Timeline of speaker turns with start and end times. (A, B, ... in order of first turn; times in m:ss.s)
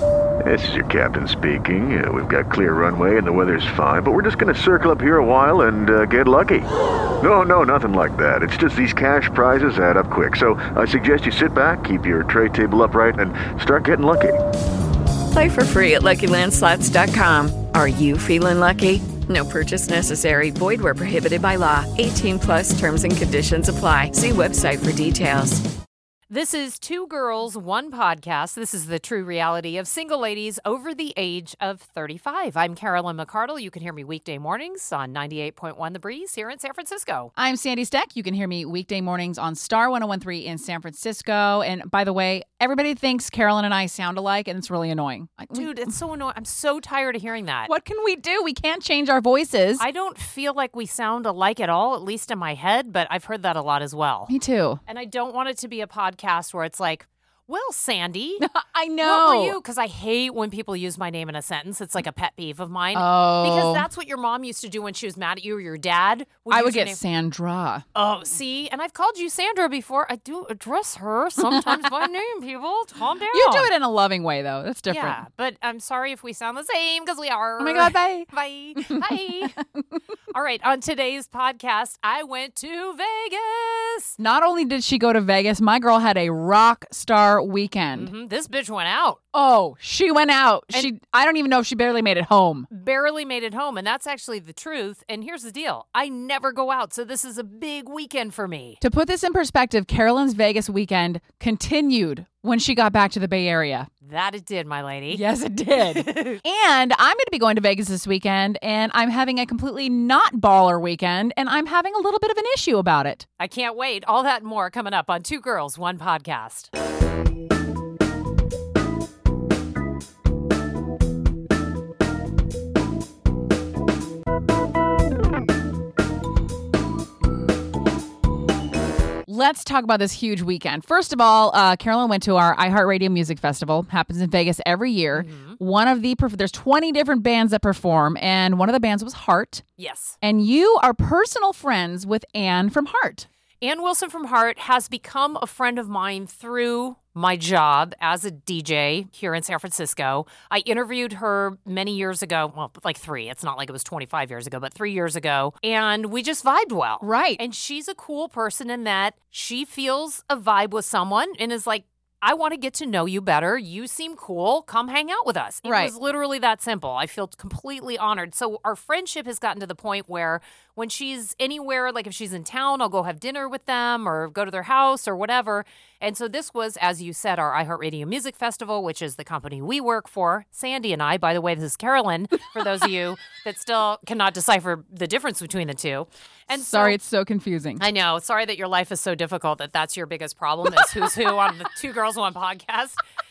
0:00.4-0:06.7 A
0:07.2-0:14.4 A
0:15.3-0:25.6 B
0:26.3-0:37.3 C
0:37.4-0:45.9 D
0:45.5-0:47.7 C
0:47.7-0:49.8 D
0:49.8-0:54.3 C
0:54.3-0:54.8 D
0:54.9-0:58.5 C
0:58.4-0:59.6 D
0:59.0-1:07.0 C
1:02.9-1:03.9 D
1:06.5-1:07.8 D
1:07.9-1:13.7 C
1:11.4-1:11.8 D
1:13.3-1:15.2 D
1:14.9-1:19.6 C
1:17.6-1:18.3 D
1:18.9-1:19.6 D
1:20.3-1:24.2 C
1:24.2-1:28.1 D
1:27.9-1:29.2 C
1:29.3-1:32.7 D
1:32.7-1:38.8 C
1:38.8-1:43.9 D
1:44.0-1:45.2 C
1:45.1-1:53.2 D
1:45.7-1:46.4 C
1:53.4-1:56.7 C
2:09.2-2:19.6 D
2:15.1-2:15.6 C
2:19.8-2:20.2 C
2:20.2-2:23.3 D
2:23.6-3:07.0 C
2:37.0-2:37.4 D
2:45.6-2:45.9 D
3:06.5-3:07.8 D
3:07.8-3:13.0 C